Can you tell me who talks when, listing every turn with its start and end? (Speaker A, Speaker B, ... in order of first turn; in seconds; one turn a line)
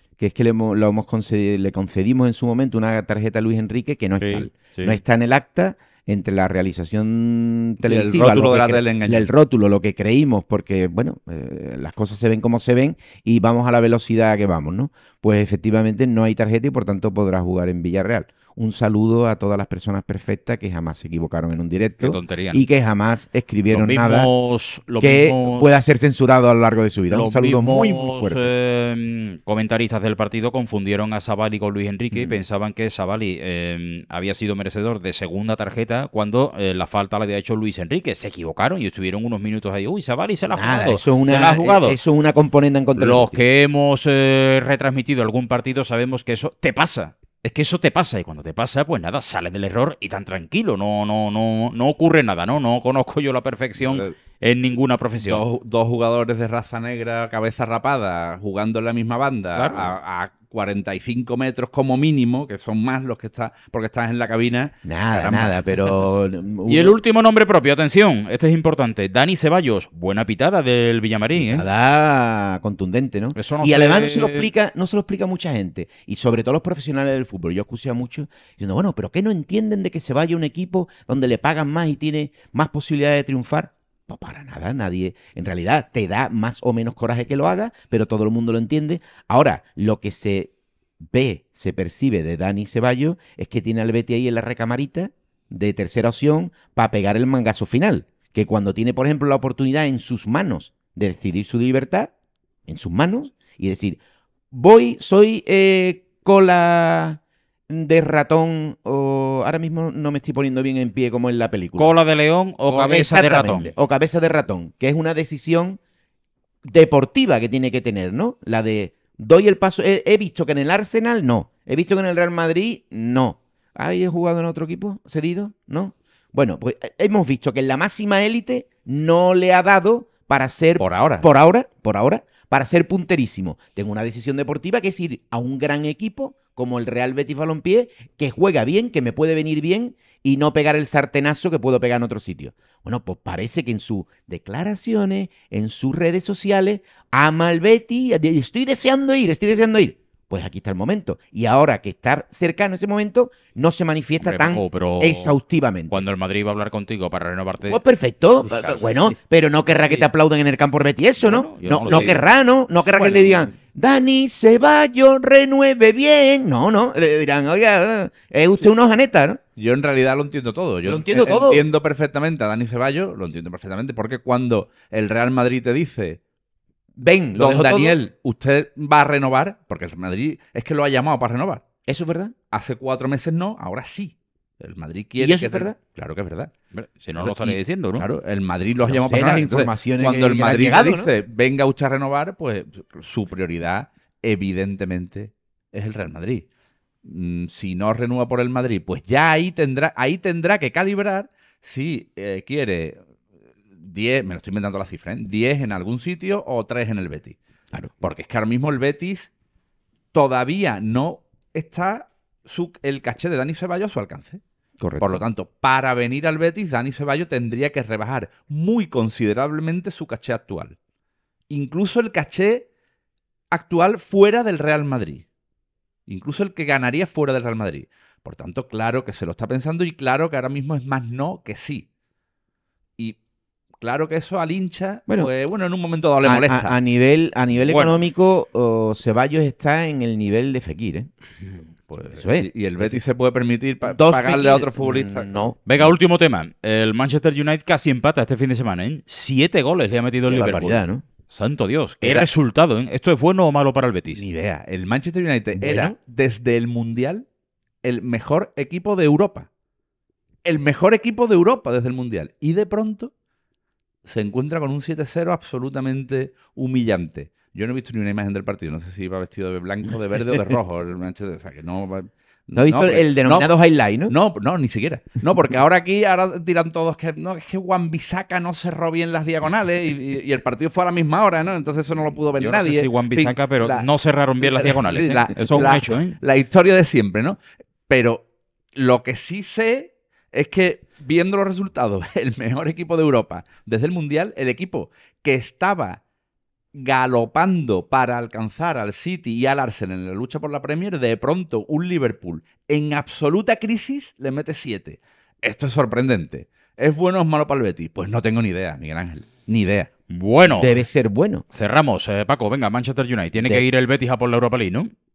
Speaker A: 0.2-24.3
Speaker B: 4.2-5.0
Speaker C: 7.8-9.3
Speaker B: 22.0-22.6
Speaker B: 23.7-25.7
Speaker A: 25.0-28.4
Speaker B: 27.1-42.0
Speaker A: 32.1-32.4
Speaker A: 40.5-43.4
Speaker B: 43.0-55.4
Speaker C: 53.8-54.1
Speaker C: 55.2-65.9
Speaker B: 59.5-59.9
Speaker A: 64.8-67.0
Speaker B: 66.7-71.6
Speaker A: 71.4-102.1
Speaker B: 73.3-74.5
Speaker A: 102.7-104.0
Speaker A: 104.5-111.9
Speaker B: 111.8-113.7
Speaker A: 112.7-115.8
Speaker A: 116.6-156.0
Speaker C: 130.8-131.3
Speaker B: 154.2-155.4
Speaker B: 155.9-157.8
Speaker A: 157.6-169.4
Speaker B: 158.4-158.8
Speaker B: 161.2-162.2
Speaker C: 162.9-163.5
Speaker C: 169.6-176.2
Speaker A: 170.8-171.7
Speaker A: 176.9-178.0
Speaker C: 177.3-181.6
Speaker A: 181.8-182.3
Speaker C: 182.5-186.5
Speaker A: 185.2-185.7
Speaker B: 186.7-188.1
Speaker C: 187.2-196.4
Speaker A: 188.8-191.1
Speaker C: 197.0-203.0
Speaker C: 203.8-207.4
Speaker C: 208.0-209.3
Speaker C: 210.1-214.4
Speaker A: 214.8-215.2
Speaker C: 215.0-220.8
Speaker C: 221.5-222.7
Speaker C: 223.5-225.2
Speaker C: 226.1-231.8
Speaker C: 233.8-236.8
Speaker A: 236.2-241.1
Speaker B: 237.7-238.0
Speaker C: 241.9-245.3
Speaker A: 242.1-243.0
Speaker A: 243.9-246.0
Speaker B: 245.7-254.2
Speaker A: 250.3-251.0
Speaker A: 252.0-252.3
Speaker C: 254.1-257.2
Speaker A: 255.6-255.9
Speaker C: 257.8-259.5
Speaker C: 260.4-263.1
Speaker C: 264.0-273.5
Speaker A: 272.5-274.1
Speaker C: 274.1-283.9
Speaker B: 282.4-286.2
Speaker C: 284.4-296.0
Speaker C: 296.7-309.9
Speaker B: 310.1-310.7
Speaker A: 310.5-311.4
Speaker B: 311.5-314.9
Speaker A: 313.4-313.6